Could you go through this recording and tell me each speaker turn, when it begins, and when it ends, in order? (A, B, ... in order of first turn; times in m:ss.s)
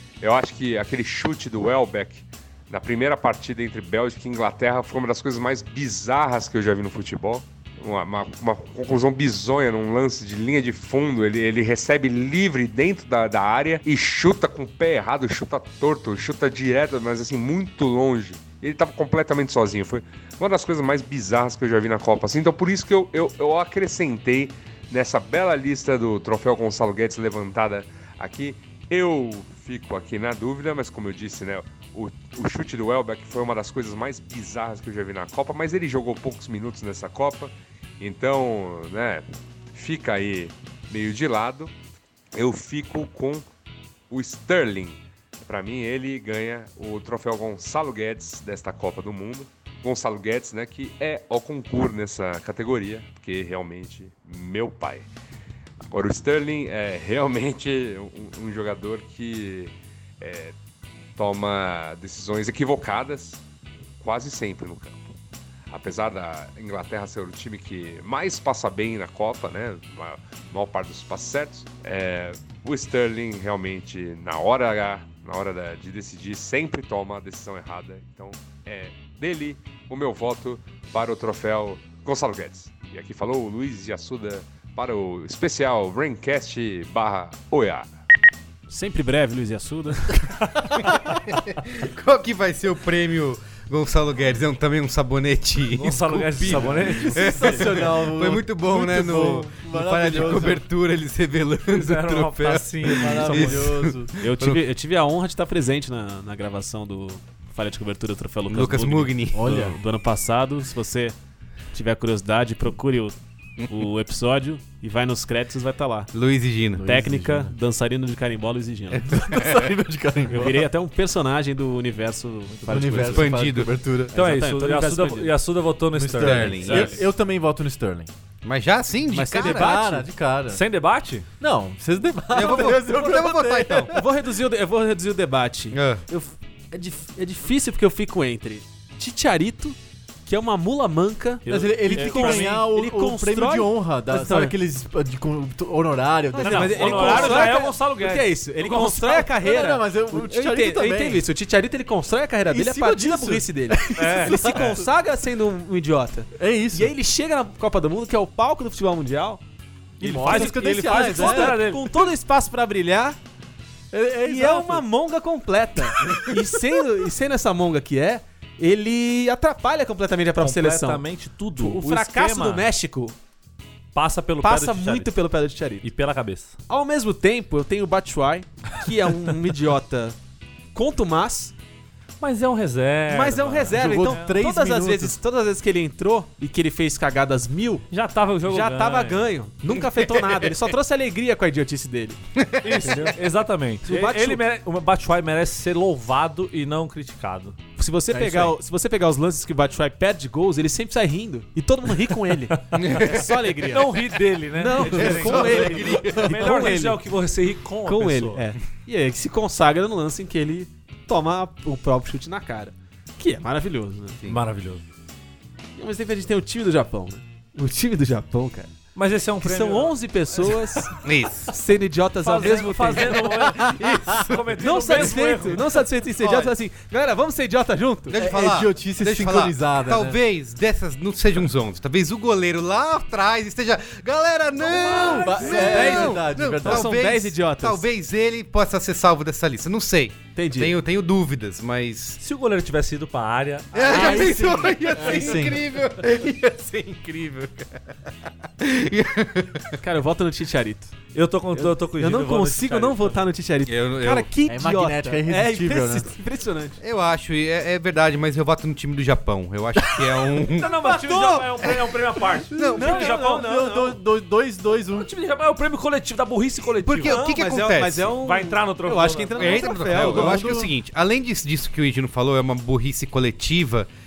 0:00.2-0:41.7 A
0:42.3-0:43.4 A
0:44.1-0:55.1 A
0:55.9-1:00.5 A
1:01.2-1:03.4 A
1:04.0-1:05.1 A
1:05.7-1:27.9 A
1:28.7-1:30.2 B
1:30.7-1:44.6 C
1:35.7-1:37.8 D
1:36.7-1:40.6 E
1:41.7-1:43.8 D
1:42.9-1:44.1 E
1:44.2-1:51.2 B
1:48.5-1:49.6 C
1:49.3-1:49.8 E
1:51.7-1:56.1 B
1:56.1-1:56.8 C
1:56.8-1:57.5 E
1:56.8-1:59.2 B
1:59.0-2:00.6 E
1:59.1-1:59.7 C
2:00.3-2:03.3 B
2:02.7-2:04.1 E
2:02.8-2:03.7 C
2:04.1-2:05.3 B
2:04.1-2:07.0 D
2:05.9-2:08.1 E
2:06.1-2:07.0 C
2:06.6-2:07.0 B
2:08.4-2:09.8 C
2:09.1-2:10.0 B
2:09.3-2:10.6 E
2:10.5-2:11.2 D
2:11.4-2:14.0 E
2:12.3-2:13.9 C
2:12.4-2:12.7 B
2:13.9-2:24.6 B
2:15.7-2:16.0 C
2:21.4-2:22.6 D
2:21.4-2:27.6 E
2:26.3-2:39.4 B
2:26.4-2:28.4 D
2:28.6-2:31.2 E
2:32.5-2:34.8 E
2:34.0-2:34.8 D
2:36.4-2:36.9 E
2:40.0-2:41.6 E
2:40.0-2:43.2 B
2:40.1-2:42.0 D
2:43.9-2:44.8 E
2:44.2-2:51.0 B
2:50.4-2:52.7 D
2:51.6-2:53.1 B
2:53.9-2:55.1 D
2:54.4-2:55.9 B
2:55.8-2:56.6 D
2:56.7-3:00.2 B
3:00.7-3:01.5 B
3:02.2-3:04.3 D
3:03.1-3:07.9 B
3:03.7-3:05.2 E
3:07.9-3:09.3 D
3:08.4-3:12.2 B
3:12.4-3:13.0 C
3:12.6-3:17.6 D
3:12.8-3:13.1 B
3:13.8-3:14.4 B
3:17.8-3:24.0 B
3:18.1-3:18.6 E
3:22.7-3:23.3 C
3:23.7-3:28.4 D
3:24.5-3:27.0 B
3:24.8-3:26.2 E
3:25.0-3:26.3 C
3:27.8-3:34.2 B
3:34.3-3:34.8 D
3:35.8-3:38.8 B
3:38.9-3:40.6 D
3:39.4-3:43.4 B
3:41.0-3:41.5 C
3:42.2-3:45.8 D
3:43.5-3:44.5 C
3:44.6-3:48.2 B
3:46.2-3:46.5 C
3:48.1-4:02.2 C
3:48.1-3:50.2 E
3:54.7-3:57.8 B
3:55.2-3:56.9 E
4:00.3-4:00.8 B
4:02.2-4:04.5 D
4:03.7-4:07.8 C
4:03.8-4:05.6 E
4:08.6-4:09.8 C
4:09.8-4:10.9 B
4:11.1-4:13.2 D
4:11.5-4:16.8 B
4:13.7-4:14.3 C
4:14.5-4:16.1 E
4:16.8-4:20.7 C
4:19.8-4:20.3 E
4:20.5-4:23.7 D
4:20.8-4:21.5 B
4:22.5-4:23.1 C
4:22.6-4:25.1 E
4:22.7-4:24.0 B
4:24.9-4:27.2 D
4:26.8-4:28.1 C
4:27.0-4:30.6 B
4:28.2-4:30.1 D
4:29.4-4:33.9 C
4:29.9-4:30.7 E